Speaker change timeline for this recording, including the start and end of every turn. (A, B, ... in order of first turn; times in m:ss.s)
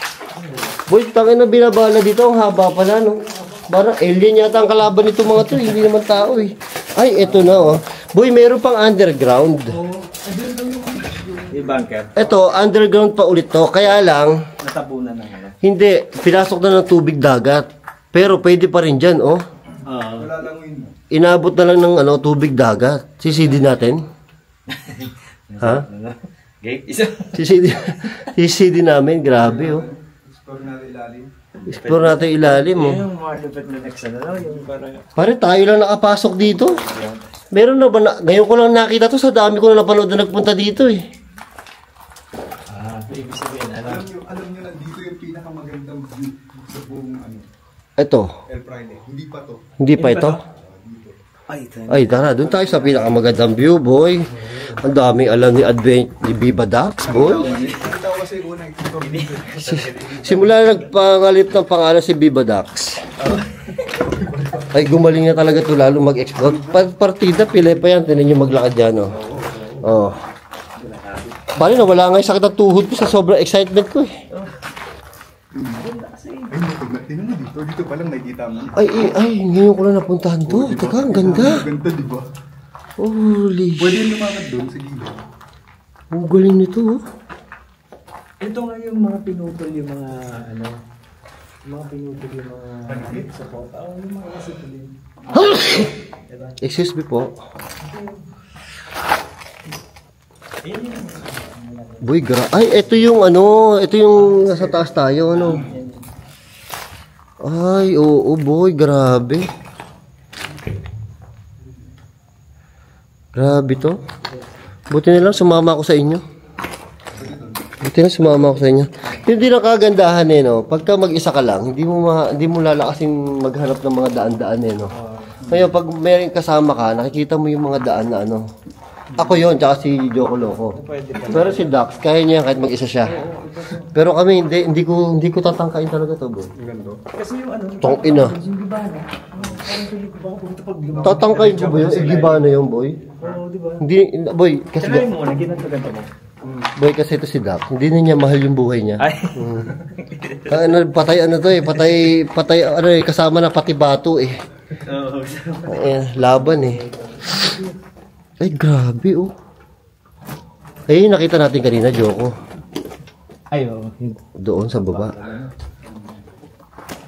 0:00.4-0:00.8 A
0:00.9-0:09.8 B
0:07.2-0:07.7 A
0:09.7-0:12.3 A
0:12.2-0:14.4 B
0:14.6-0:15.6 A
0:15.6-0:19.4 B
0:19.8-0:20.3 A
0:20.2-0:21.0 C
0:21.1-0:24.0 B
0:24.7-0:28.3 A
0:25.6-0:25.9 B
0:27.3-0:29.9 B
0:29.3-0:31.3 C
0:31.6-0:35.3 A
0:31.7-0:33.0 B
0:35.2-0:36.8 B
0:36.5-0:37.3 A
0:37.5-0:41.0 B
0:42.7-0:44.1 A
0:43.8-0:47.5 C
0:48.0-0:48.4 B
0:48.5-0:49.7 C
0:49.8-0:50.4 B
0:50.0-0:50.4 A
0:50.5-0:51.2 C
0:51.5-0:52.6 A
0:51.9-0:57.6 B
0:52.7-0:53.0 C
0:54.4-0:54.7 A
0:57.0-0:59.6 C
0:57.1-0:57.9 A
0:59.0-1:00.9 A
0:59.7-1:03.1 B
1:03.2-1:04.1 A
1:04.1-1:04.7 C
1:04.7-1:09.2 B
1:06.4-1:06.9 C
1:09.1-1:09.9 C
1:09.8-1:10.2 B
1:10.8-1:11.7 A
1:11.6-1:14.1 B
1:15.5-1:15.8 C
1:15.7-1:16.5 A
1:16.5-1:19.1 C
1:18.8-1:21.7 B
1:20.5-1:22.2 C
1:23.0-1:24.0 B
1:23.8-1:25.2 C
1:26.1-1:27.0 B
1:28.4-1:30.8 A
1:31.6-1:36.6 A
1:32.9-1:33.3 C
1:35.3-1:35.9 B
1:36.6-1:37.3 B
1:37.8-1:38.3 A
1:40.6-1:43.0 A
1:42.0-1:45.7 B
1:44.2-1:46.0 A
1:47.4-1:49.5 B
1:53.3-1:54.0 B
1:54.9-1:56.2 B
1:57.2-1:57.7 C
1:57.8-2:04.9 B
2:04.9-2:05.4 A
2:05.4-2:05.8 C
2:05.5-2:08.4 B
2:09.1-2:09.5 C
2:09.2-2:10.8 B
2:10.7-2:11.8 A
2:11.3-2:13.2 B
2:13.0-2:13.9 A
2:13.9-2:16.5 B
2:16.6-2:17.0 C
2:17.1-2:22.5 A
2:17.8-2:18.3 B
2:19.3-2:19.7 C
2:20.9-2:21.6 C
2:21.0-2:23.0 B
2:23.2-2:23.8 A
2:23.8-2:25.1 B
2:24.8-2:26.1 A
2:26.4-2:26.7 C
2:26.8-2:29.7 B
2:29.0-2:30.8 A
2:30.5-2:34.4 B
2:31.6-2:32.0 A
2:34.8-2:37.8 A
2:35.7-2:36.8 B
2:38.4-2:39.3 B
2:40.9-2:42.4 B
2:43.5-2:44.2 A
2:44.4-2:45.2 B
2:44.8-2:45.5 A
2:45.8-2:46.2 C